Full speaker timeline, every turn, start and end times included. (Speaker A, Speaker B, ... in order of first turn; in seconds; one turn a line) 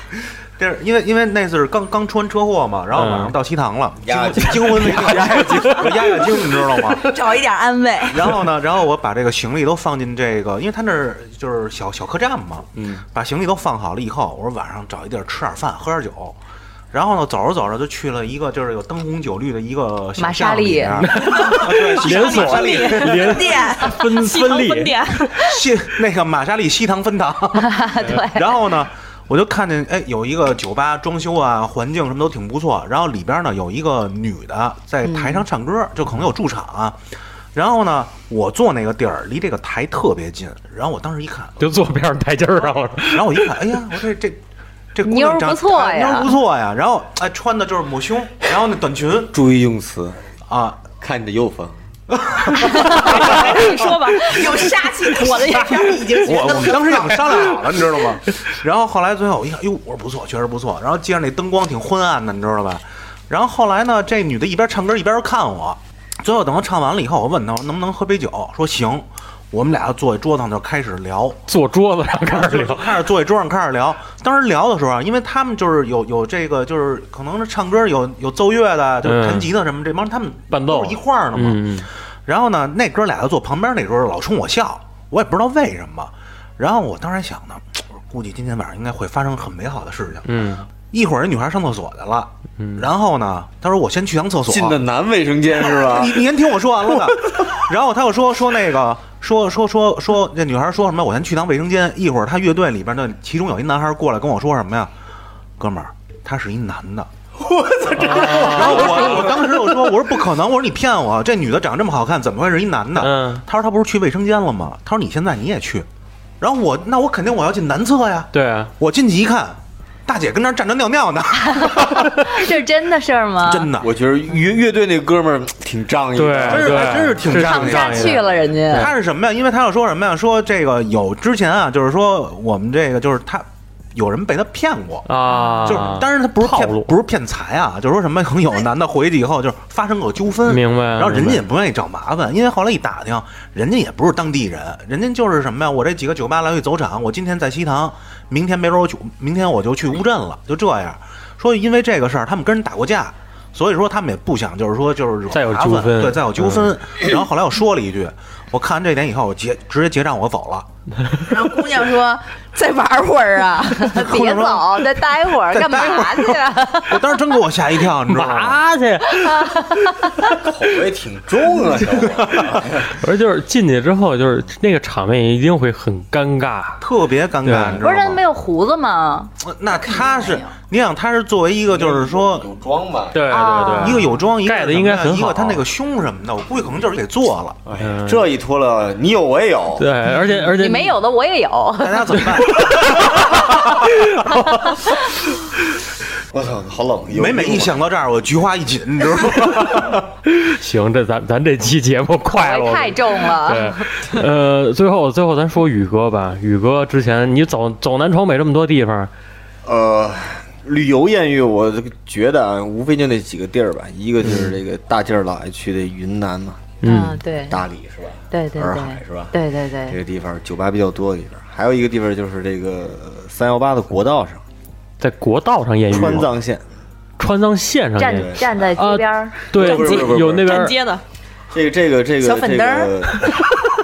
Speaker A: 0.6-7.1
Speaker B: 3.0-3.3
Speaker C: 4.0-6.3
Speaker B: 4.9-5.8
Speaker D: 7.0-8.4
Speaker A: 8.1-16.4
Speaker A: 16.9-23.5
Speaker E: 20.2-21.1
Speaker B: 21.0-25.4
Speaker F: 22.0-25.5
Speaker D: 23.3-24.0
Speaker A: 25.4-37.0
Speaker E: 27.6-28.4
Speaker E: 35.0-35.4
Speaker A: 37.5-41.6
Speaker B: 41.6-43.6
Speaker A: 43.1-44.4
Speaker A: 44.9-49.3
Speaker E: 45.0-46.3
Speaker C: 49.3-50.2
Speaker A: 50.5-50.9
Speaker C: 50.9-51.8
Speaker A: 52.2-53.9
Speaker F: 52.8-54.7
Speaker C: 53.0-53.4
Speaker D: 54.2-57.5
Speaker F: 55.2-55.8
Speaker A: 56.2-71.4
Speaker B: 71.5-73.0
Speaker A: 72.3-94.8
Speaker B: 79.0-79.5
Speaker B: 80.5-81.9
Speaker B: 90.3-90.7
Speaker B: 92.6-92.9
Speaker C: 94.5-96.3
Speaker A: 95.6-104.9
Speaker C: 96.9-97.5
Speaker A: 105.6-107.1
Speaker C: 107.6-108.8
Speaker A: 107.8-115.9
Speaker B: 108.0-109.3
Speaker B: 113.0-113.4
Speaker A: 116.4-122.5
Speaker B: 118.3-118.7
Speaker E: 121.5-123.7
Speaker A: 123.5-123.9
Speaker C: 123.8-127.1
Speaker B: 126.2-128.9
Speaker A: 126.5-135.1
Speaker E: 127.3-128.9
Speaker B: 135.1-136.9
Speaker A: 135.6-160.7
Speaker B: 140.5-141.4
Speaker B: 155.3-156.7
Speaker D: 161.2-164.1
Speaker E: 163.8-167.0
Speaker A: 164.0-164.9
Speaker A: 165.5-168.6
Speaker B: 168.1-169.9
Speaker E: 169.1-170.3
Speaker C: 170.4-172.9
Speaker B: 172.9-176.8
Speaker A: 176.8-178.2
Speaker B: 177.4-177.8
Speaker E: 177.8-179.3
Speaker A: 179.4-182.5
Speaker D: 179.8-180.5
Speaker C: 181.7-183.3
Speaker B: 183.1-185.6
Speaker E: 183.3-184.2
Speaker A: 183.8-187.6
Speaker C: 187.7-189.9
Speaker B: 187.8-188.3
Speaker B: 189.8-191.0
Speaker E: 190.6-192.3
Speaker A: 191.8-193.9
Speaker B: 192.6-194.8
Speaker C: 196.3-197.8
Speaker A: 197.2-200.0
Speaker B: 200.3-209.1
Speaker E: 202.3-203.9
Speaker C: 209.6-216.8
Speaker B: 214.2-214.5
Speaker B: 216.8-217.2
Speaker E: 216.8-217.7
Speaker C: 217.5-224.4
Speaker E: 218.3-220.0
Speaker B: 225.0-226.3
Speaker C: 225.9-226.6
Speaker B: 227.2-230.8
Speaker E: 228.0-229.6
Speaker C: 228.1-228.5
Speaker C: 229.5-230.7
Speaker F: 229.6-231.0
Speaker C: 231.5-233.5
Speaker D: 232.6-232.9